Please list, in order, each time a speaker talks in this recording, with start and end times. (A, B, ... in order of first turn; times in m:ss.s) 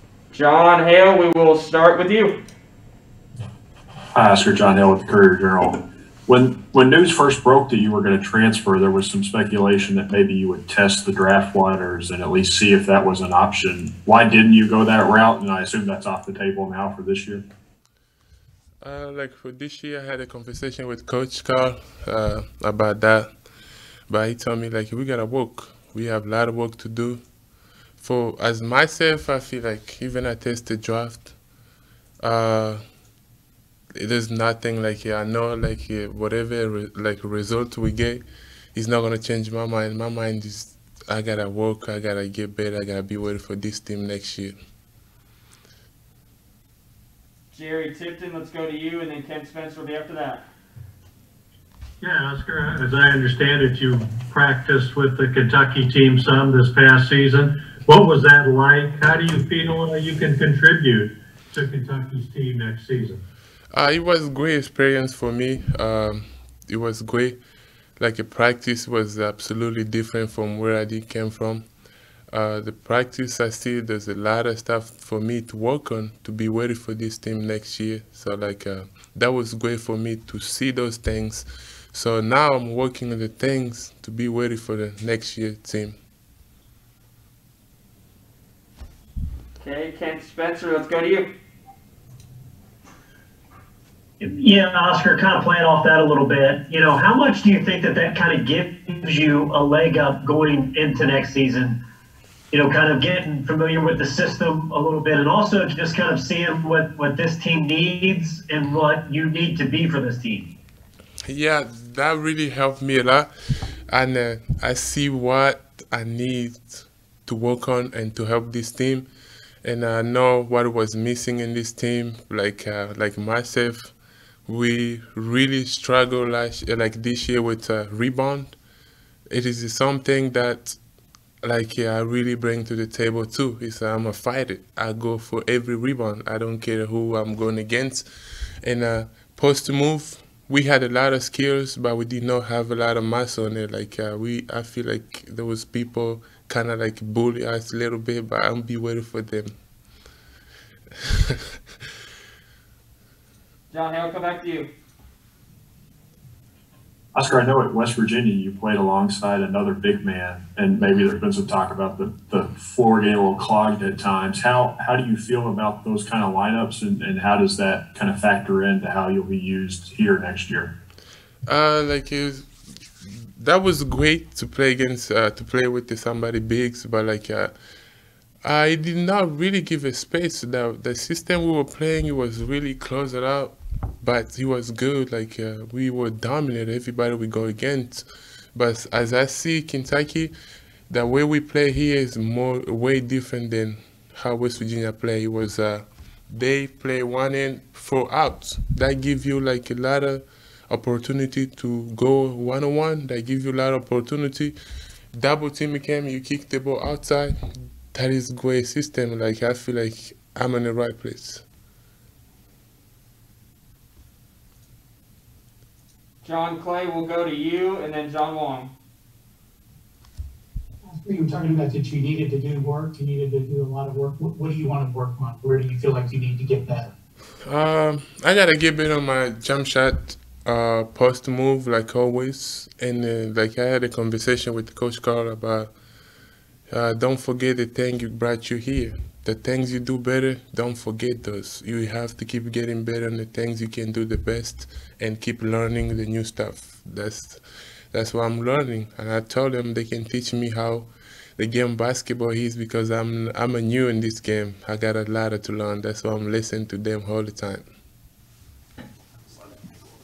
0:00.3-0:02.4 A
0:04.1-0:17.4 B
0:18.8-0:23.3 C
0:24.1-0:27.2 C
0:28.0-0:31.3 C
0:32.2-0:32.8 C
0:34.0-0:38.2 C
0:38.7-0:44.5 C
0:47.5-0:50.4 A
0:52.0-1:03.2 D
1:03.7-1:07.4 C
1:08.0-1:11.6 C
1:12.3-1:26.0 C
1:29.6-1:31.3 A
1:34.2-1:41.8 E
1:42.5-1:50.5 E
1:51.3-1:53.3 C
1:53.9-1:59.1 C
1:59.6-2:03.9 C
2:04.5-2:08.6 C
2:09.3-2:10.8 C
2:11.4-2:18.0 C
2:18.6-2:29.5 C
2:33.7-2:34.7 A
2:37.1-2:50.7 B
2:51.5-2:52.5 C
2:53.0-2:57.5 C
2:58.4-3:10.3 C
3:10.9-3:24.5 C
3:25.1-3:27.4 C
3:27.9-3:31.4 C
3:36.2-3:38.7 A
3:40.8-3:46.9 F
3:47.4-3:55.7 C
3:56.7-4:07.4 C
4:07.9-4:17.6 C